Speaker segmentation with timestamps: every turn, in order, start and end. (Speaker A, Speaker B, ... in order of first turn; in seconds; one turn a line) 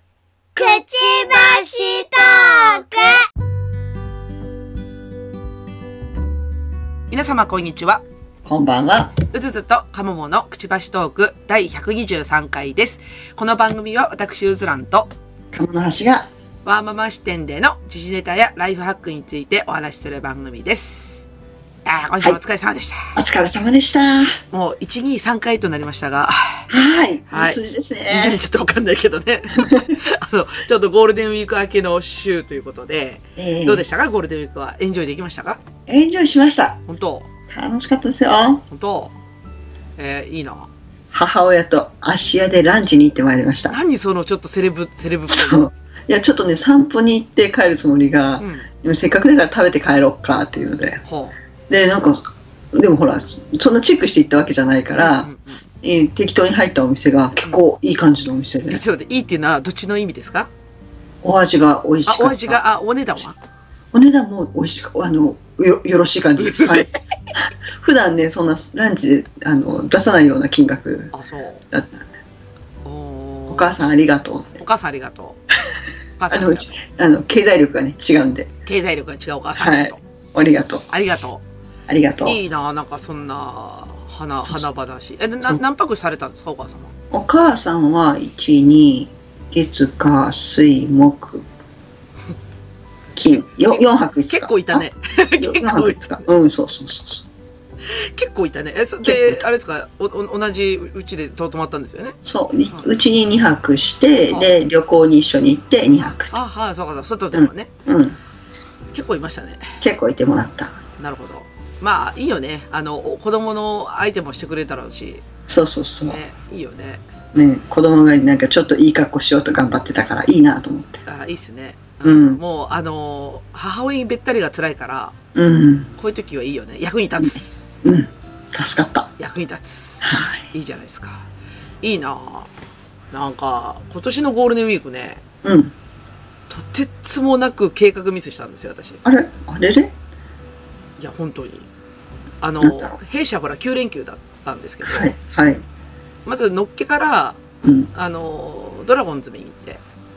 Speaker A: 0.5-3.2
Speaker B: 7.1-8.0
Speaker C: 8.4-9.2
Speaker B: 9.3-15.1
Speaker C: 15.5-16.3
Speaker B: 16.6-21.3
Speaker B: 21.8-23.0
Speaker C: 23.1-24.4
Speaker B: 24.5-26.7
Speaker C: 26.7-28.4
Speaker B: 27.3-35.6
Speaker C: 29.6-30.0
Speaker C: 33.4-33.8
Speaker C: 35.9-36.8
Speaker B: 36.9-37.3
Speaker C: 37.5-38.6
Speaker B: 38.7-39.1
Speaker B: 40.0-40.7
Speaker C: 41.1-43.8
Speaker B: 43.7-45.7
Speaker C: 45.3-51.0
Speaker B: 48.4-48.7
Speaker B: 51.0-51.3
Speaker C: 51.7-55.3
Speaker B: 55.0-55.6
Speaker C: 55.8-58.8
Speaker B: 58.7-60.5
Speaker C: 61.2-62.6
Speaker B: 62.0-63.4
Speaker C: 63.9-71.1
Speaker B: 66.4-67.0
Speaker B: 71.1-71.6
Speaker C: 71.7-72.0
Speaker B: 72.8-73.7
Speaker C: 73.5-74.6
Speaker B: 74.5-75.4
Speaker B: 76.2-76.7
Speaker C: 76.3-78.5
Speaker B: 78.7-80.0
Speaker C: 79.5-80.8
Speaker B: 80.9-81.4
Speaker C: 81.9-82.4
Speaker B: 82.2-86.9
Speaker C: 87.1-91.4
Speaker B: 93.2-96.3
Speaker C: 93.2-97.3
Speaker B: 97.9-102.2
Speaker C: 99.0-99.4
Speaker C: 102.2-106.3
Speaker B: 106.0-107.7
Speaker C: 107.3-108.2
Speaker B: 108.9-109.6
Speaker C: 109.8-110.8
Speaker B: 111.0-115.2
Speaker C: 115.5-116.2
Speaker B: 116.1-117.0
Speaker C: 117.3-121.0
Speaker B: 121.0-125.1
Speaker C: 122.0-122.4
Speaker C: 125.3-125.9
Speaker B: 126.0-127.8
Speaker C: 127.2-129.1
Speaker B: 129.2-131.2
Speaker C: 130.0-130.4
Speaker B: 131.8-132.5
Speaker B: 133.1-135.2
Speaker C: 135.4-135.7
Speaker B: 136.5-139.0
Speaker C: 139.0-139.9
Speaker B: 141.0-141.7
Speaker B: 142.4-145.1
Speaker C: 142.6-142.9
Speaker C: 144.8-145.6
Speaker B: 146.2-147.4
Speaker C: 147.6-147.9
Speaker B: 147.9-149.8